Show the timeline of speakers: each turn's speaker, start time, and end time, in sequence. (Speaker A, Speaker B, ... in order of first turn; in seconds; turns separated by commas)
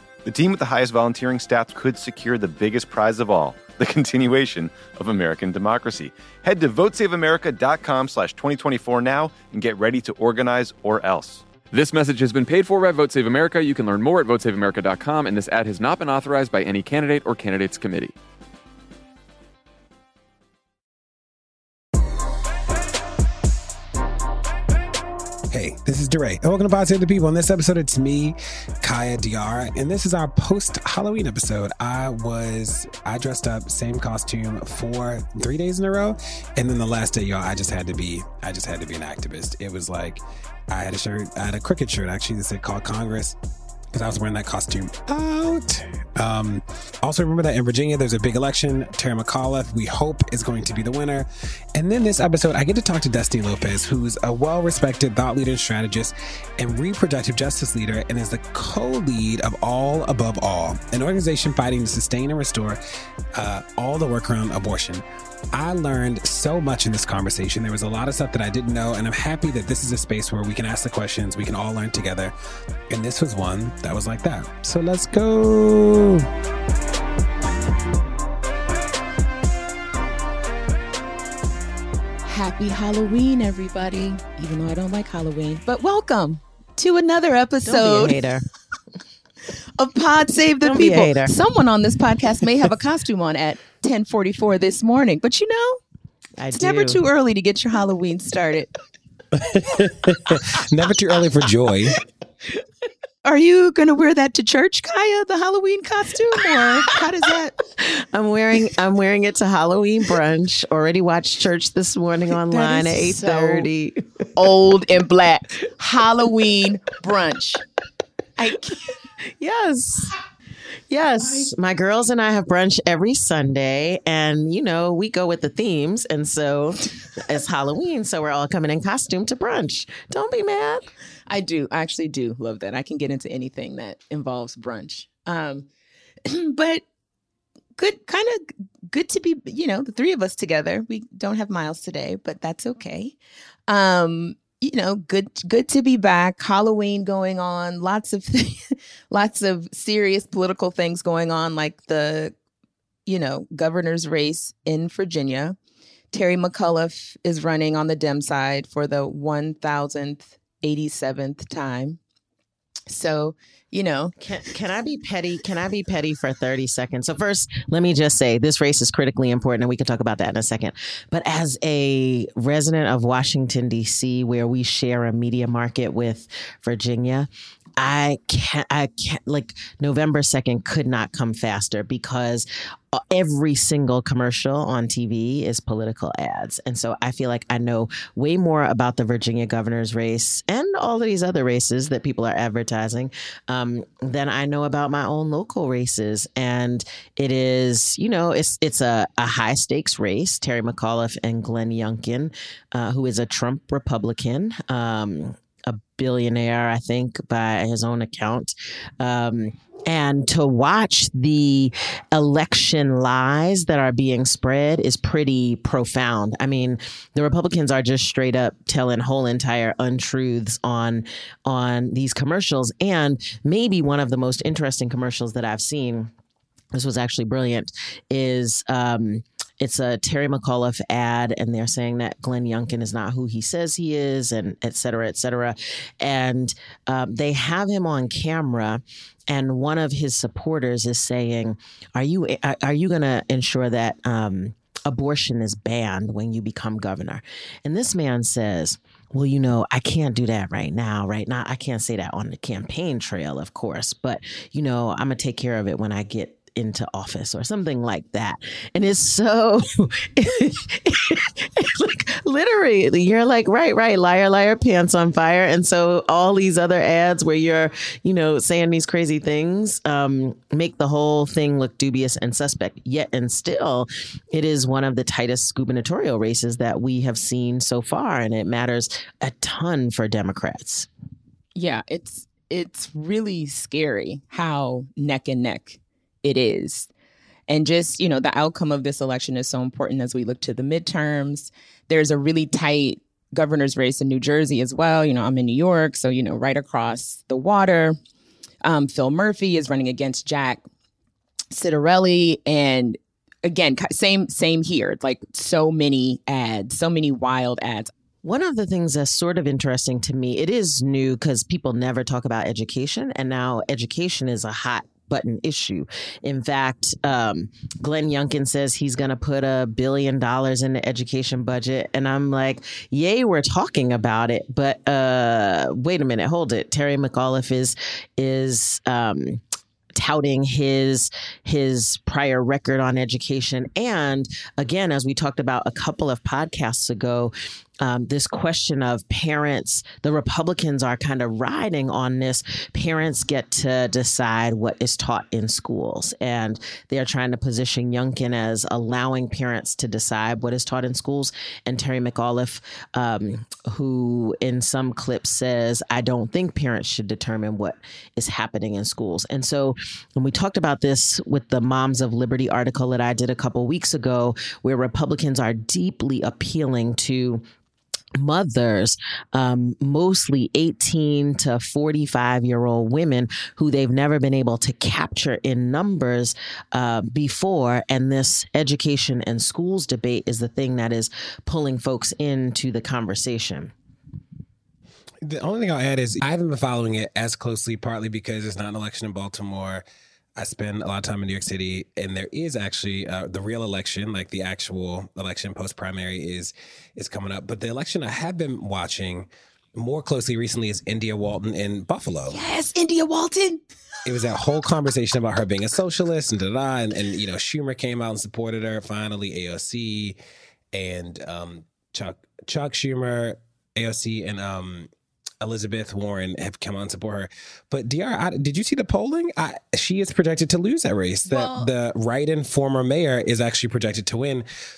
Speaker A: 0.2-11.4, Speaker B: 11.7-18.1, Speaker C: 25.5-43.4, Speaker C: 43.9-62.8, Speaker C: 63.4-72.3, Speaker C: 72.9-76.3, Speaker D: 82.2-88.2, Speaker E: 87.7-88.4, Speaker D: 89.8-95.8, Speaker E: 90.6-91.3, Speaker E: 96.4-97.0, Speaker D: 96.5-98.7, Speaker C: 99.3-102.0, Speaker D: 103.2-107.3, Speaker E: 106.5-114.0, Speaker D: 112.5-113.7, Speaker D: 114.3-117.6, Speaker D: 118.4-119.0, Speaker E: 119.2-120.2, Speaker E: 120.9-130.9, Speaker D: 121.2-121.5, Speaker D: 131.3-135.7, Speaker D: 136.3-136.8, Speaker D: 137.8-143.2, Speaker D: 143.7-152.3, Speaker D: 153.1-155.6, Speaker D: 156.1-162.0, Speaker D: 162.9-164.2, Speaker E: 164.2-226.1, Speaker E: 226.7-280.9, Speaker D: 281.6-286.9, Speaker D: 287.5-298.0, Speaker D: 298.6-300.6, Speaker D: 301.5-307.9, Speaker E: 308.2-329.4, Speaker E: 329.9-367.4, Speaker E: 368.2-383.7, Speaker C: 385.2-389.8, Speaker C: 390.4-402.4, Speaker D: 402.3-403.6, Speaker C: 404.1-410.2, Speaker C: 410.7-414.9, Speaker C: 415.4-424.4, Speaker D: 421.3-421.7